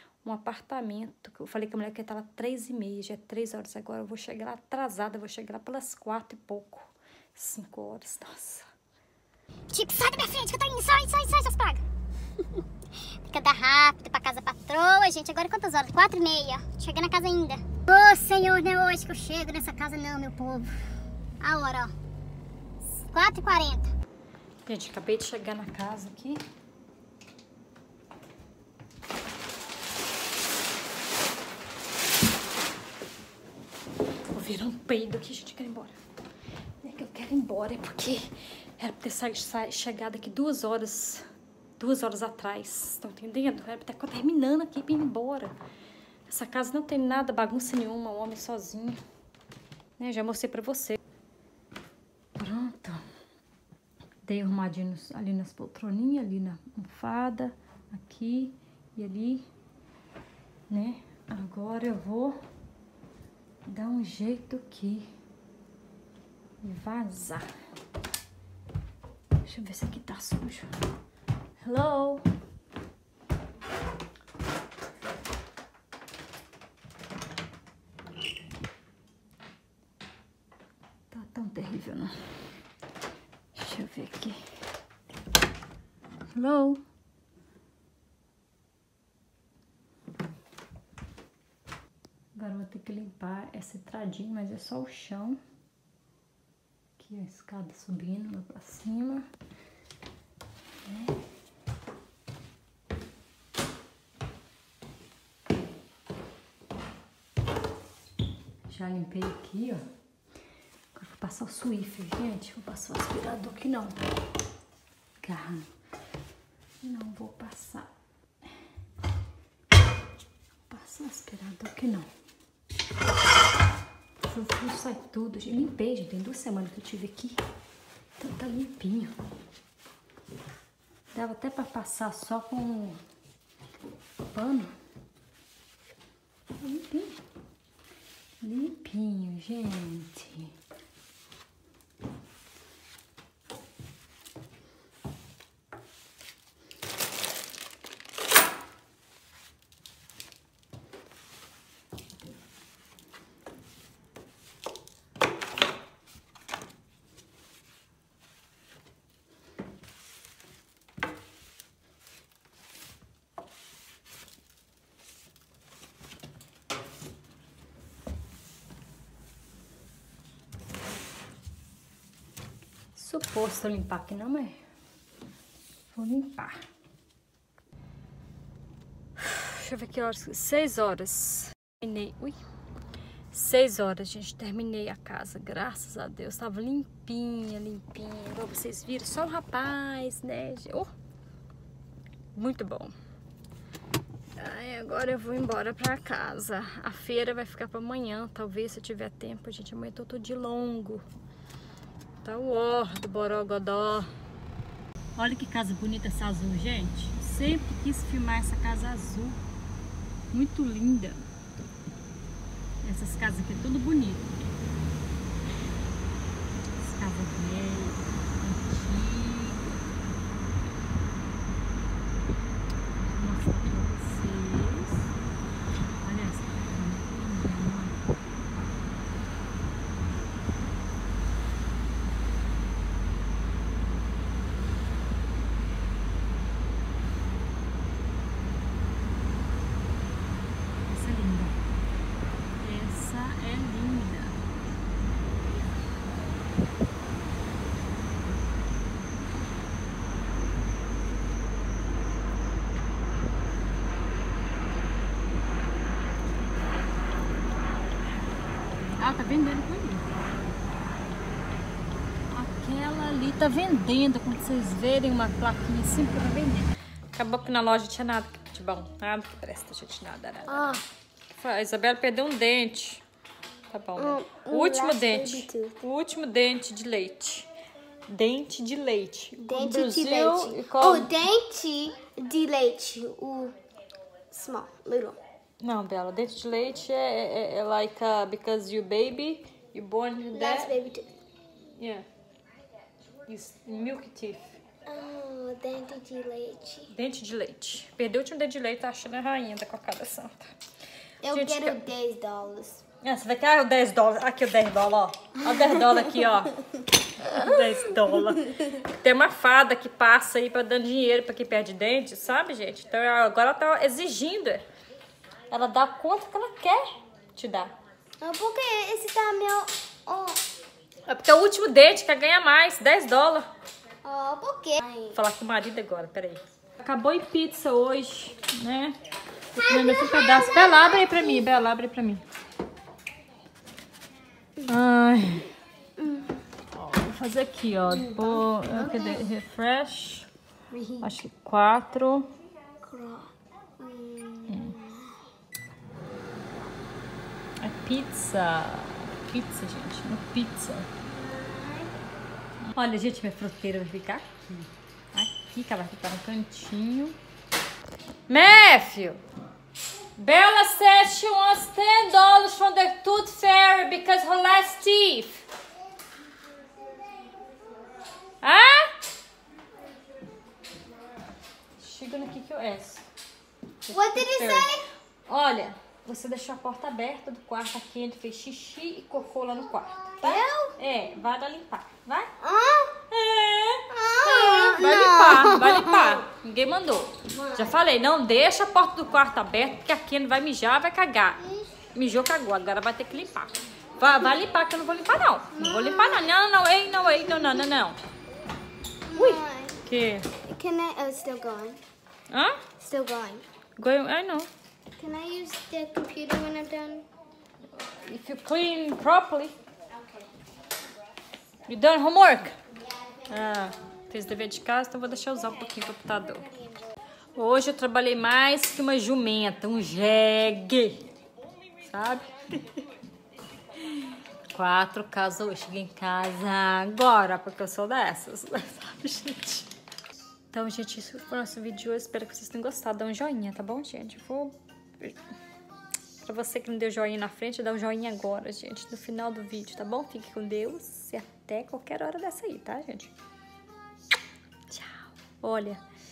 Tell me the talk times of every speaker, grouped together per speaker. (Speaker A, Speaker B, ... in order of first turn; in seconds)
Speaker A: 0.2-8.7, 24.6-26.4, 34.3-36.0, 36.8-41.2, 41.8-45.5, 46.3-49.0, 50.0-51.0, 52.4-53.0, 54.2-59.5, 60.7-62.4, 63.7-65.0, 66.6-67.5, 69.4-70.7, 71.6-72.2, 81.1-82.1, 83.5-84.4, 86.3-86.8, 92.3-95.4, 97.0-99.2, 100.8-101.2, 108.7-109.8, 110.9-114.0, 115.2-115.7, 116.8-117.9, 120.7-122.1, 124.2-127.4, 128.2-129.1, 131.1-133.0, 134.2-134.8, 136.6-137.2, 138.4-140.5, 172.9-174.6, 175.9-176.6, 179.2-182.4, 183.3-190.9, 192.3-192.9, 194.4-201.0, 202.2-204.1, 205.2-209.4, 210.3-211.2, 212.8-214.3, 216.8-219.7, 223.1-225.1, 226.0-228.0, 240.8-241.6, 242.6-244.4, 259.0-260.2, 262.3-273.0, 273.7-277.5, 278.1-281.1, 285.6-290.8, 291.8-292.1, 293.3-294.6, 296.9-300.6, 301.3-301.8, 303.0-306.6, 307.2-314.6, 315.5-317.7, 321.1-323.5, 325.1-329.0, 329.5-332.2, 334.6-335.5, 336.7-340.3, 341.0-342.3, 347.6-350.9, 352.6-357.2, 358.3-359.2, 360.2-365.4, 368.4-368.9, 371.8-373.0, 373.9-374.7, 375.3-382.3, 383.1-398.0, 399.1-400.3, 402.3-402.6, 403.8-404.5, 407.9-409.5, 411.7-412.6, 413.3-416.5, 417.4-421.0, 421.8-422.6, 424.5-429.7, 430.5-435.2, 436.2-443.1, 444.7-445.8
Speaker B: 9.7-11.8, 13.3-20.7, 21.4-21.9, 23.0-23.9
Speaker C: 270.5-270.8, 274.0-275.8, 279.4-283.5, 284.3-285.2, 290.3-291.1, 294.9-296.9, 301.2-302.8, 308.4-308.7, 318.2-320.4, 324.0-325.2, 329.6-331.4, 336.0-336.3, 337.9-339.2, 340.7-341.1, 342.8-345.1, 351.1-351.9, 373.9-374.9, 380.2-380.7, 382.4-383.0, 383.9-386.2, 387.3-387.7, 395.5-396.2, 399.1-399.8, 400.5-401.8, 402.8-403.4, 405.0-407.0, 409.9-410.2, 412.9-413.2